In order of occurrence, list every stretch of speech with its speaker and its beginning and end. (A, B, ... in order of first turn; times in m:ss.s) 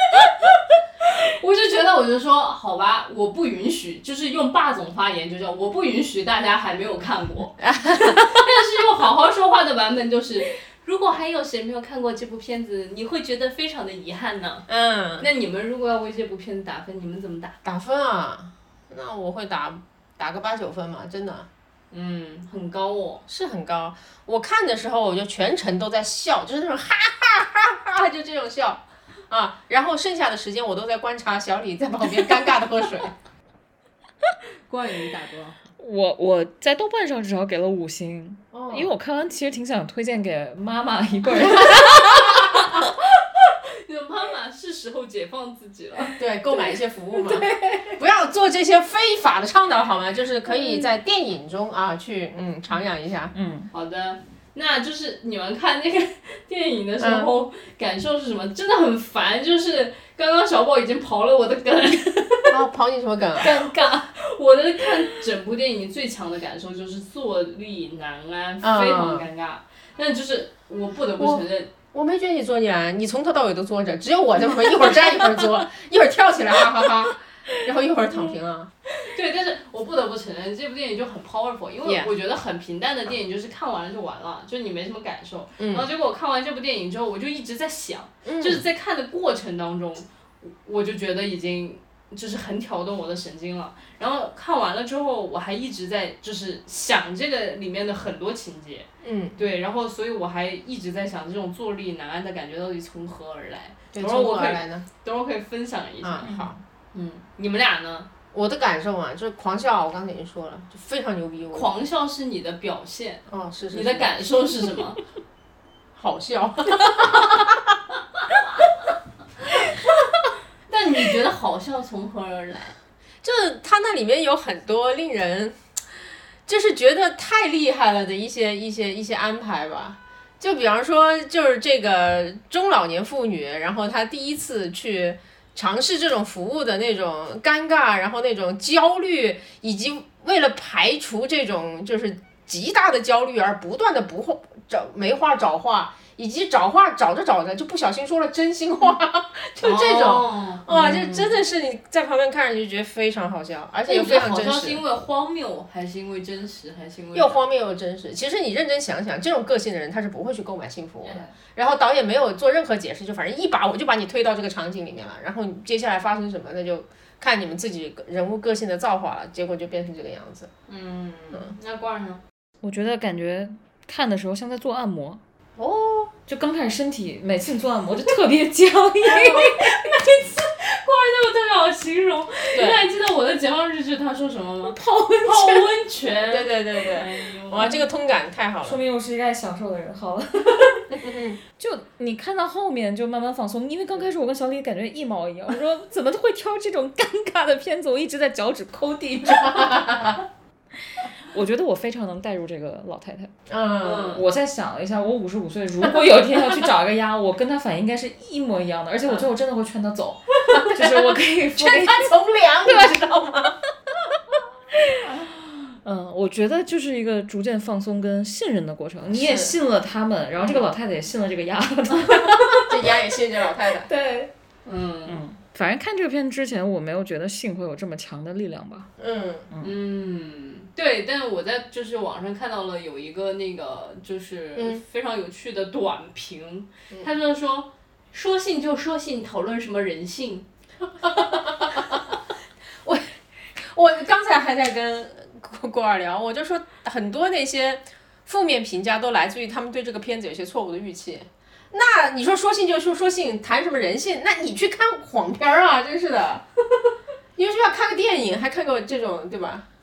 0:01.2-0:14.7 A
0:07.6-0:08.4 B
0:14.7-0:15.3 B
0:15.2-0:17.6 A
0:17.6-0:21.5 B
0:21.9-0:23.2 A
0:23.3-0:33.1 B
0:34.7-0:35.6 A
0:35.8-0:42.8 C
0:38.5-0:38.9 B
0:41.4-0:42.4 B
0:43.4-0:46.2 A
0:46.2-0:53.3 B
0:47.4-0:47.9 C
0:53.3-0:53.7 C
0:53.7-1:02.6 A
0:57.0-0:57.3 B
1:02.5-1:03.6 B
1:03.4-1:11.7 A
1:08.6-1:09.3 B
1:11.2-1:18.7 B
1:19.0-1:46.3 A
1:25.6-1:25.9 B
1:28.2-1:28.6 B
1:39.0-1:39.4 B
1:43.9-1:44.9 B
1:46.0-1:46.6 B
1:46.2-1:46.6 C
1:46.9-1:48.1 A
1:48.3-1:51.7 B
1:51.5-1:55.0 A
1:53.3-1:54.1 B
1:56.0-1:57.8 B
1:59.7-2:00.1 B
2:00.7-2:02.8 A
2:03.2-2:05.6 B
2:06.5-2:34.8 B
2:29.6-2:30.6 A
2:30.7-2:31.4 C
2:33.9-2:37.4 A
2:37.1-2:50.5 B
2:41.0-2:41.3 A
2:50.7-2:52.2 A
2:52.6-2:55.2 C
2:55.6-2:56.1 B
2:56.3-2:59.8 C
2:59.7-3:07.8 A
3:02.6-3:02.8 B
3:04.7-3:05.7 C
3:06.2-3:08.8 B
3:08.6-3:11.0 C
3:11.0-3:11.4 B
3:11.6-3:20.2 C
3:19.5-3:20.1 B
3:21.0-3:23.3 C
3:23.5-3:24.2 B
3:23.8-3:24.2 A
3:24.1-3:32.1 C
3:30.5-3:30.9 B
3:31.6-3:33.6 B
3:32.6-3:33.2 C
3:35.0-3:42.8 C
3:39.1-3:39.6 B
3:42.5-3:43.9 B
3:43.8-3:44.3 C
3:44.7-3:45.2 A
3:45.1-3:48.9 C
3:49.0-3:49.5 B
3:49.5-3:49.8 C
3:49.6-4:00.5 A
3:54.6-3:54.8 B
4:01.0-4:02.0 B
4:02.8-4:16.4 B
4:17.4-4:19.7 B